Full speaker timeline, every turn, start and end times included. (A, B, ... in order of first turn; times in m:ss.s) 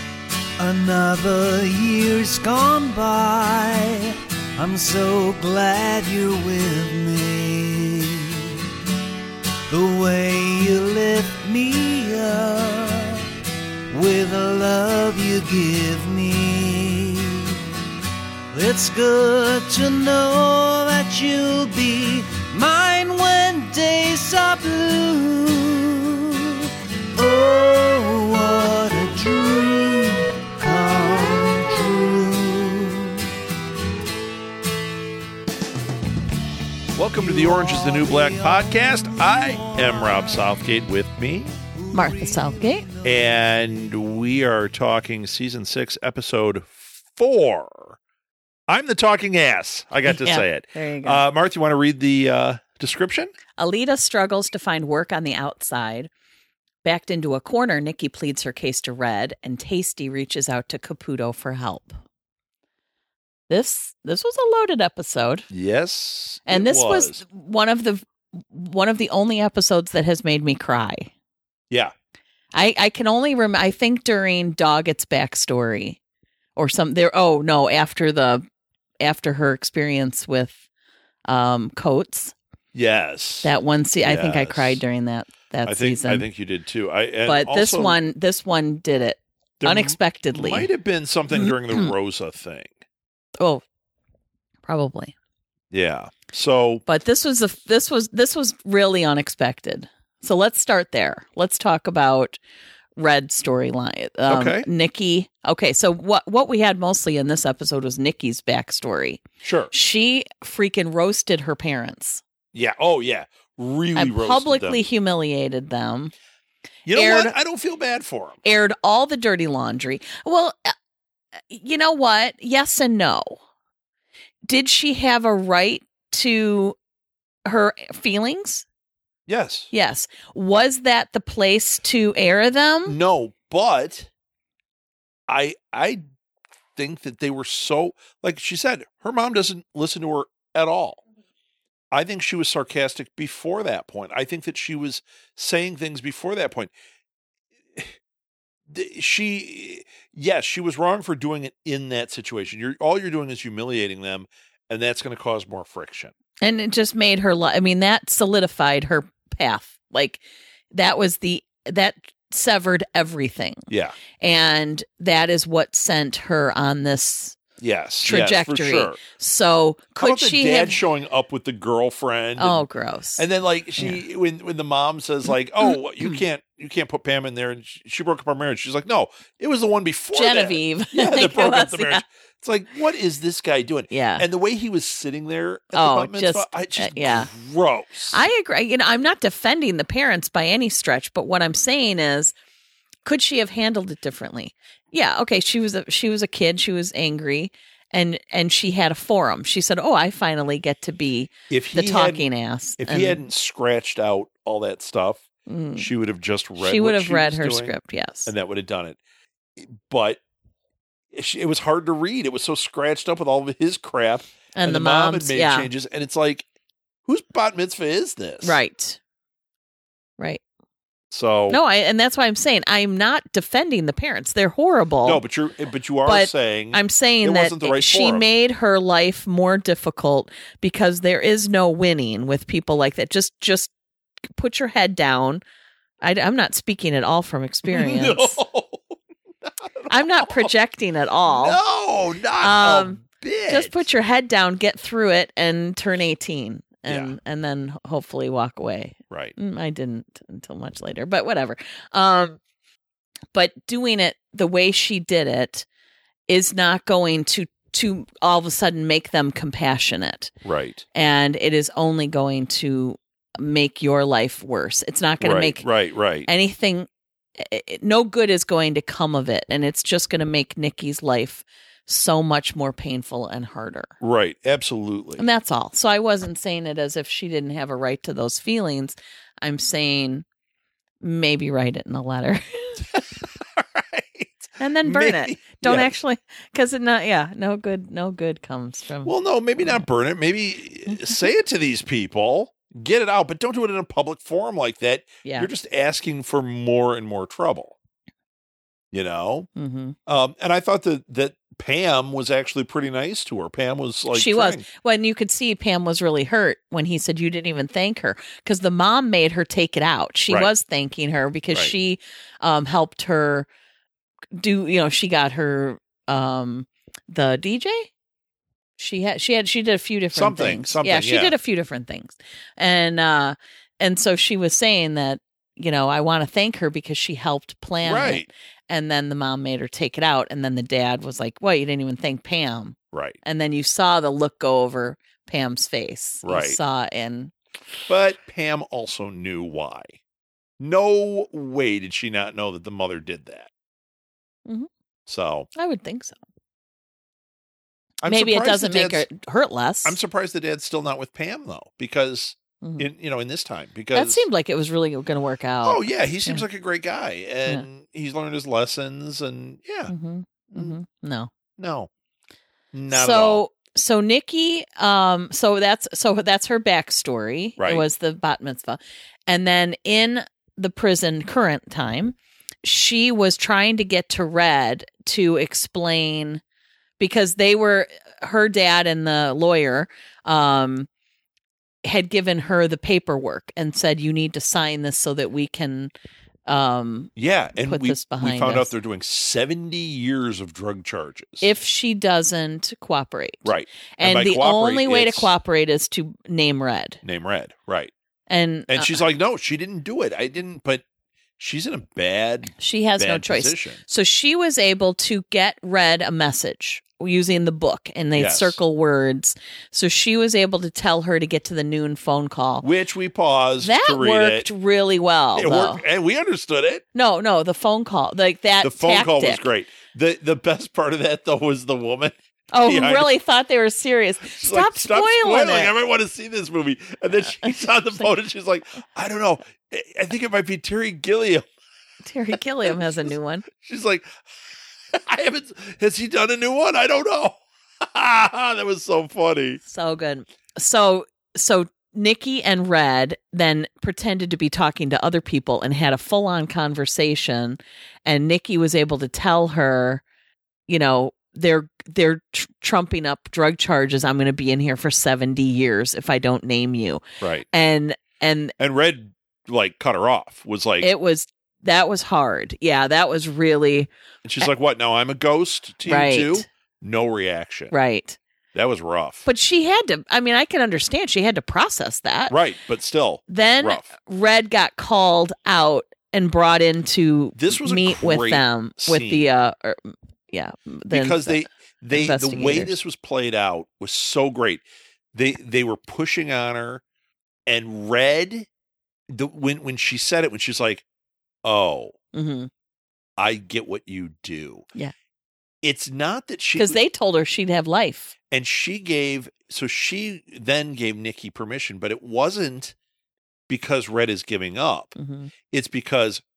0:00.6-0:08.5 A
0:09.7-0:13.3 A
0:13.9-0:17.6 A
0:18.5-0:33.3 A
0:36.9-0:41.5 B
0:37.1-0:40.5 A
0:41.8-0:43.2 A
0:41.9-0:42.9 C
0:43.0-0:48.0 B
0:48.7-0:53.3 B
0:50.0-0:51.2 C
0:53.6-0:56.1 C
0:56.8-1:02.0 C
1:03.5-1:05.5 C
1:05.5-1:07.2 B
1:06.5-1:11.1 C
1:12.5-1:16.0 C
1:16.6-1:18.4 C
1:19.0-1:20.6 C
1:21.3-1:22.3 C
1:22.7-1:23.5 B
1:23.4-1:26.2 C
1:24.0-1:24.8 B
1:25.6-1:28.0 B
1:27.2-1:30.7 C
1:29.6-1:32.7 B
1:31.3-1:31.9 C
1:34.6-1:35.1 C
1:35.7-1:36.8 B
1:36.9-1:42.4 C
1:43.0-1:52.2 C
1:44.3-1:44.7 B
1:49.4-1:49.7 B
1:52.5-1:54.8 B
1:54.0-1:56.1 C
1:56.8-1:58.4 B
1:56.9-1:57.3 C
1:58.4-2:00.7 C
2:01.5-2:03.4 C
2:04.5-2:06.8 C
2:07.4-2:08.6 C
2:09.3-2:09.7 B
2:09.7-2:13.0 C
2:12.8-2:14.1 B
2:15.3-2:16.0 B
2:16.8-2:21.0 B
2:21.9-2:26.7 B
2:28.7-2:36.1 B
2:36.4-2:47.4 C
2:43.7-2:44.0 B
2:47.6-2:49.0 B
2:48.0-2:50.8 C
2:50.0-2:52.6 B
2:52.4-2:53.2 C
2:53.2-3:08.2 B
2:53.8-2:54.0 C
2:55.6-2:56.2 C
3:00.1-3:02.0 C
3:03.9-3:04.2 C
3:05.7-3:07.3 C
3:08.1-3:12.3 C
3:13.0-3:23.2 C
3:21.5-3:22.2 B
3:22.8-3:25.2 B
3:25.4-3:25.9 C
3:25.8-3:27.7 B
3:26.6-3:28.3 C
3:28.2-3:29.0 B
3:29.6-3:30.2 B
3:31.1-3:36.5 B
3:34.5-3:35.7 C
3:37.0-3:38.6 B
3:38.4-3:39.0 C
3:41.1-3:41.6 B
3:41.5-3:45.2 C
3:45.0-3:48.2 B
3:46.0-3:53.7 C
3:54.3-3:55.4 C
3:56.0-3:58.4 C
3:57.7-3:58.9 B
3:59.4-4:00.5 B
3:59.9-4:01.6 C
4:01.3-4:03.8 B
4:02.4-4:12.4 C
4:06.9-4:07.1 B
4:13.3-4:15.6 C
4:16.3-4:20.3 C
4:20.4-4:20.8 B
4:20.9-4:25.6 C
4:25.2-4:26.3 B
4:26.2-4:33.9 C
4:34.0-4:35.2 B
4:35.2-4:40.2 C
4:41.0-4:42.9 C
4:42.9-4:45.9 B
4:44.6-4:49.1 C
4:49.0-4:57.7 B
4:50.9-4:51.2 C
4:55.2-4:55.5 C
4:58.9-4:59.5 B
4:59.6-5:00.0 C
5:00.1-5:04.6 B
5:04.1-5:13.5 C
5:14.4-5:17.9 C
5:18.8-5:37.3 C
5:20.1-5:21.3 B
5:27.8-5:28.3 B
5:32.9-5:33.2 B
5:36.2-5:36.6 B
5:37.9-5:40.0 B
5:40.6-5:43.5 B
5:45.1-5:45.5 B
5:45.5-5:46.2 C
5:48.0-5:49.0 B
5:48.0-5:50.0 C
5:49.8-5:54.2 B
5:53.9-5:56.4 C
5:55.6-5:59.9 B
5:59.9-6:01.3 C
6:01.6-6:01.9 B
6:02.7-6:03.4 B
6:02.9-6:16.4 C
6:07.6-6:07.8 B
6:17.0-6:20.9 C
6:21.8-6:25.9 C
6:26.5-6:27.1 C
6:27.2-6:31.5 B
6:27.6-6:28.7 C
6:31.4-6:37.0 C
6:33.4-6:35.3 B
6:37.0-6:37.9 B
6:38.3-6:39.0 C
6:38.7-6:40.8 B
6:41.4-6:43.8 B
6:42.6-6:52.6 C
6:48.2-6:48.6 B
6:52.6-6:54.5 B
6:53.6-6:55.8 C
6:55.3-6:56.8 B
6:56.9-6:59.5 C
6:58.6-7:03.1 B
7:02.5-7:05.7 C
7:04.2-7:11.5 B
7:07.2-7:08.1 C
7:12.0-7:13.4 C
7:13.5-7:14.1 B
7:14.9-7:19.6 B
7:19.6-7:30.0 C
7:30.7-7:38.5 C
7:38.6-7:40.9 B
7:40.8-7:43.9 C
7:44.2-7:47.7 B
7:45.8-7:46.4 C
7:47.7-7:48.2 C
7:48.5-7:49.2 B
7:49.2-7:52.4 C
7:52.3-7:53.9 B
7:53.3-8:02.7 C
7:57.3-7:59.2 B
8:00.9-8:06.8 B
8:07.5-8:08.5 B
8:09.1-8:10.8 B
8:11.4-8:11.9 B
8:12.1-8:12.5 C
8:13.2-8:14.7 B
8:15.6-8:16.8 B
8:16.6-8:18.1 C
8:18.3-8:22.7 B
8:23.5-8:25.0 B
8:25.0-8:25.3 C
8:25.5-8:26.2 B